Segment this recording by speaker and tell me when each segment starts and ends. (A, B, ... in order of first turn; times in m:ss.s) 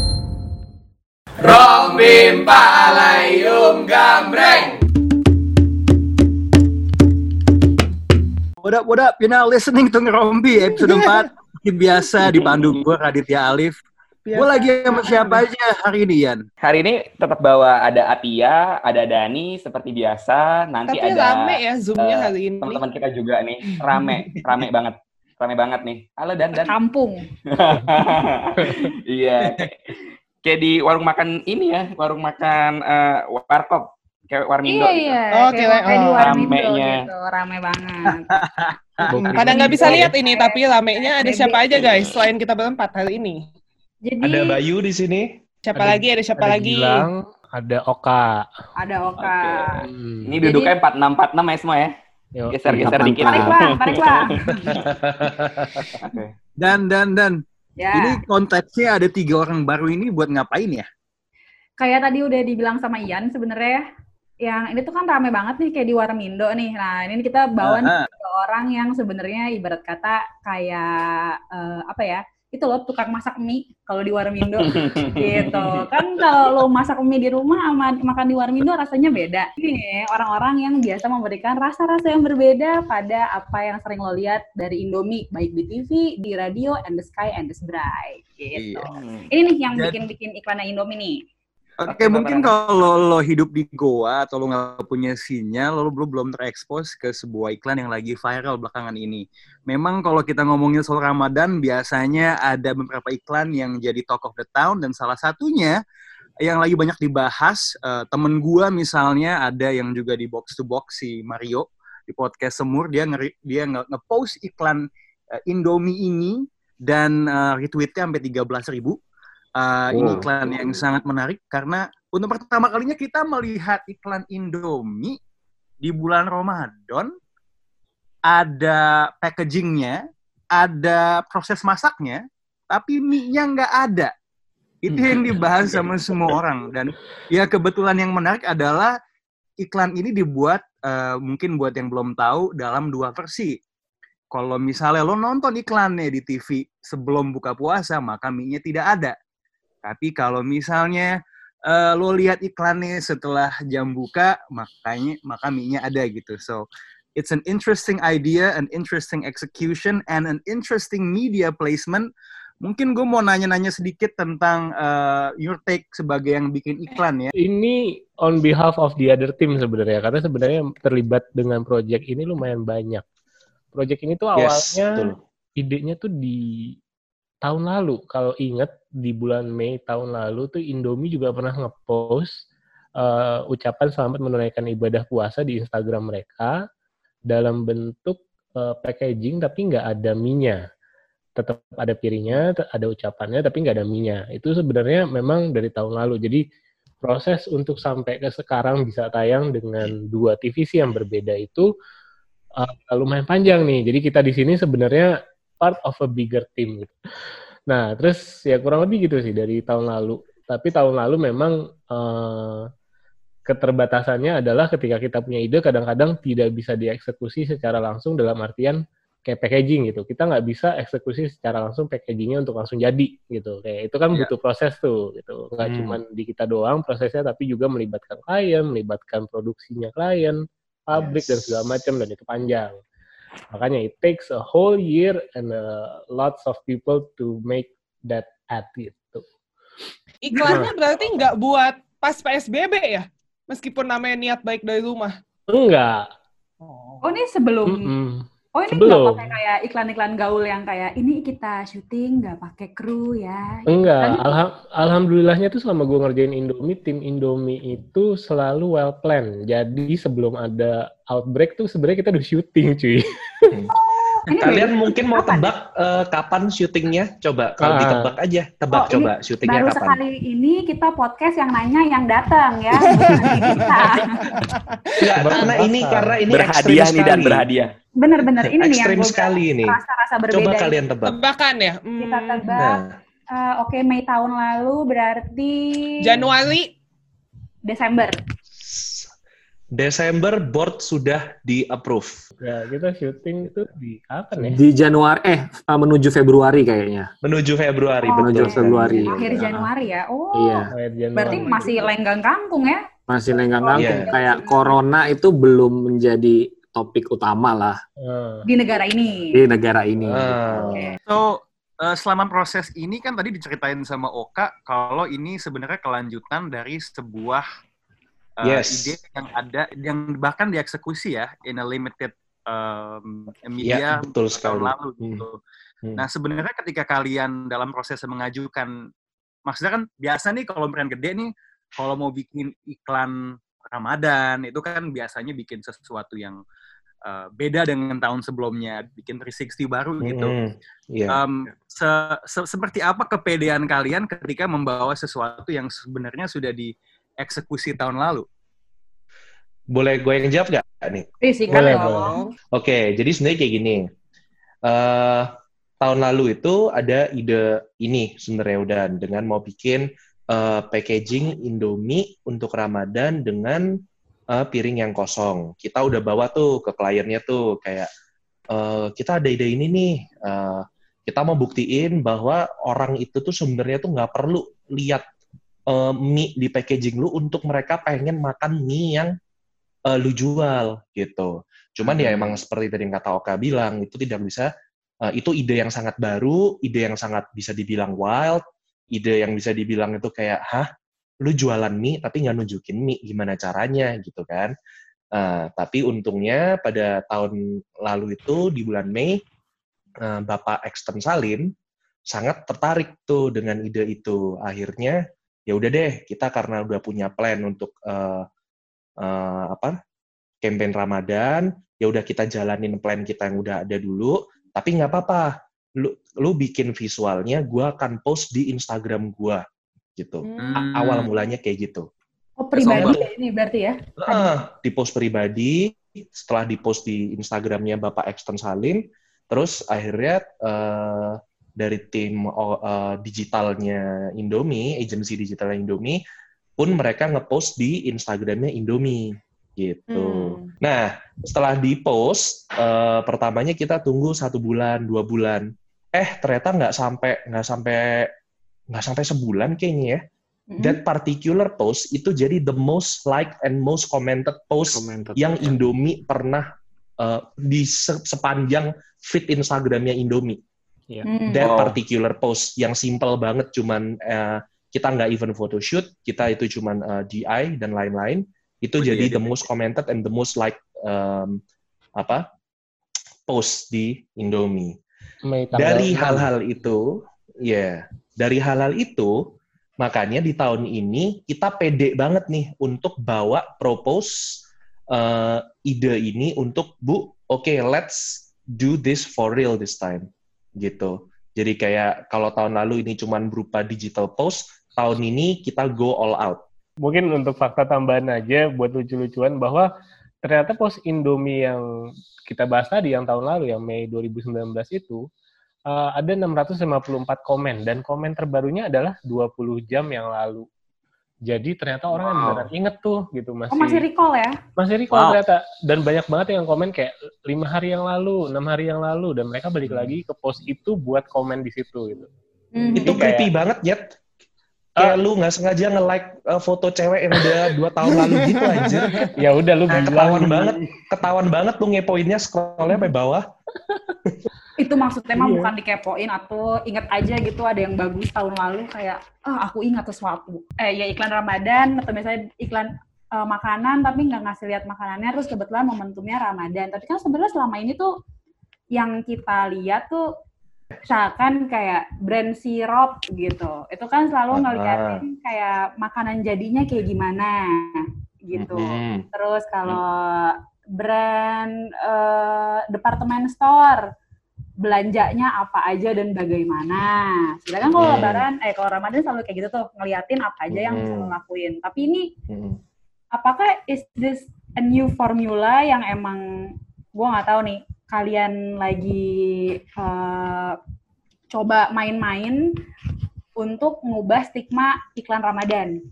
0:01.4-0:04.6 A
0:02.2-0:02.6 B
0:03.2-0:03.6 B
0:08.6-0:13.8 A
0:10.8-0:11.2 C
0:12.2-0:12.7 B
0:14.2-0:15.4 C
0:14.4-0:16.5 A
0:16.6-0:26.8 B
0:20.9-0:22.8 C
0:26.6-0:27.3 D
0:27.5-0:35.2 B
0:34.6-0:38.4 D
0:35.3-0:36.4 C
0:36.1-0:37.1 B
0:38.1-0:39.7 A
0:39.1-0:40.1 E
0:39.1-0:43.4 C
0:39.3-0:41.9 D
0:44.0-0:44.6 D
0:44.2-0:45.4 F
0:45.6-0:47.1 C
0:45.8-0:48.5 E
0:48.8-0:49.9 D
0:49.2-0:51.9 B
0:49.8-0:50.3 E
0:50.4-0:50.7 D
0:52.4-0:53.0 E
0:52.5-0:54.8 B
0:52.7-0:53.7 G
0:53.2-0:54.8 D
0:54.7-0:55.9 F
0:56.2-0:57.4 A
0:57.8-0:58.2 D
0:57.9-1:00.9 A
1:01.8-1:03.9 D
1:04.4-1:31.2 D
1:07.6-1:08.1 A
1:14.6-1:15.8 B
1:15.2-1:15.9 A
1:28.6-1:29.0 A
1:28.9-1:29.3 B
1:29.7-1:30.0 A
1:31.8-1:45.8 A
1:31.9-1:32.6 B
1:46.4-1:54.9 A
1:55.5-1:59.0 A
1:59.6-2:05.2 A
2:00.0-2:00.3 G
2:05.8-2:07.1 A
2:08.3-2:10.0 A
2:10.6-2:14.1 A
2:14.9-2:19.0 A
2:14.9-2:15.3 B
2:19.6-2:23.6 A
2:24.3-2:29.2 A
2:29.8-2:31.1 A
2:31.7-2:42.1 A
2:42.6-2:47.3 A
2:47.4-2:53.0 E
2:53.7-2:56.8 E
2:54.4-2:55.2 F
2:57.4-3:02.4 E
3:03.0-3:06.5 E
3:07.3-3:10.6 E
3:11.4-3:16.4 E
3:17.0-3:21.7 E
3:22.6-3:26.9 E
3:27.7-3:32.7 E
3:33.5-3:50.4 E
3:45.6-3:46.0 F
3:50.9-3:52.8 E
3:50.9-3:51.5 F
3:53.5-3:59.2 E
4:00.2-4:05.2 C
4:00.4-4:00.7 E
4:05.5-4:06.1 E
4:06.6-4:07.2 C
4:07.0-4:07.9 D
4:07.7-4:09.4 E
4:08.5-4:14.4 D
4:13.7-4:23.5 E
4:23.8-4:25.5 D
4:24.4-4:30.0 F
4:27.6-4:28.1 E
4:28.7-4:34.3 D
4:32.9-4:35.6 C
4:35.0-4:37.5 F
4:35.1-4:36.2 E
4:36.3-4:37.7 B
4:38.0-4:40.8 D
4:38.4-4:39.8 F
4:40.3-4:41.2 F
4:41.0-4:42.7 C
4:42.0-4:46.3 D
4:42.6-4:42.9 F
4:46.0-4:46.7 C
4:47.7-4:48.2 D
4:48.6-4:49.1 F
4:49.8-4:52.2 F
4:52.4-4:54.6 E
4:54.4-4:57.1 G
4:57.2-4:59.6 F
4:58.0-5:02.8 D
4:58.2-4:59.7 G
5:00.4-5:00.7 G
5:00.7-5:01.9 E
5:01.3-5:01.8 C
5:03.1-5:07.8 G
5:03.5-5:04.8 D
5:03.8-5:04.1 F
5:08.0-5:08.4 E
5:08.5-5:09.4 D
5:09.3-5:10.9 G
5:10.1-5:11.0 F
5:11.1-5:17.5 A
5:18.4-5:25.4 A
5:18.4-5:19.0 F
5:23.6-5:25.2 F
5:26.0-5:28.8 A
5:29.5-5:36.4 A
5:37.0-5:40.3 A
5:40.0-5:41.2 F
5:41.1-5:48.3 A
5:49.7-5:51.1 F
5:51.2-5:52.2 D
5:51.5-5:52.4 C
5:51.5-5:52.1 E
5:52.5-5:53.9 F
5:54.7-5:55.3 F
5:55.8-6:03.7 F
6:04.3-6:07.9 F
6:08.5-6:15.0 F
6:15.7-6:19.2 F
6:19.9-6:24.5 F
6:25.1-6:30.7 F
6:31.2-6:34.5 F
6:35.2-6:37.4 F
6:37.9-6:39.2 F
6:40.0-6:41.5 F
6:42.1-6:48.3 F
6:49.0-6:49.8 F
6:50.4-6:59.4 F
7:00.0-7:01.9 F
7:00.2-7:00.7 C
7:00.4-7:01.1 A
7:02.4-7:04.4 D
7:02.6-7:03.0 F
7:02.7-7:03.0 B
7:04.0-7:16.0 F
7:16.6-7:28.1 F
7:19.9-7:20.5 C
7:28.7-7:30.0 F
7:30.5-7:30.8 D
7:30.6-7:36.5 F
7:34.7-7:35.6 G
7:37.0-7:40.4 F
7:41.0-7:41.6 D
7:41.3-7:51.4 F
7:41.4-7:41.8 B
7:48.8-7:49.4 A
7:52.0-7:52.2 F
7:53.3-7:54.8 F
7:55.3-7:56.3 E
7:55.5-7:56.9 F
7:57.4-7:59.1 F
7:59.8-8:04.2 F
8:04.9-8:16.4 F
8:16.8-8:19.7 E
8:20.2-8:21.6 E
8:22.3-8:25.0 E
8:25.7-8:30.5 E
8:31.3-8:33.9 E
8:33.5-8:34.4 D
8:34.6-8:42.1 E
8:34.9-8:35.2 A
8:42.6-8:43.0 D
8:42.6-8:43.3 E
8:42.7-8:43.9 F
8:44.8-8:49.0 F
8:48.4-8:48.9 C
8:48.9-8:50.6 E
8:49.7-8:53.3 F
8:54.6-9:07.9 D
8:55.2-8:55.5 E
9:08.7-9:10.0 D
9:10.9-9:23.8 D
9:14.3-9:15.0 F
9:18.3-9:19.1 F
9:24.6-9:32.1 D
9:27.6-9:28.3 F
9:30.5-9:31.1 F
9:32.3-9:32.6 F
9:33.1-9:40.6 D
9:41.3-9:42.4 D
9:43.4-9:45.8 D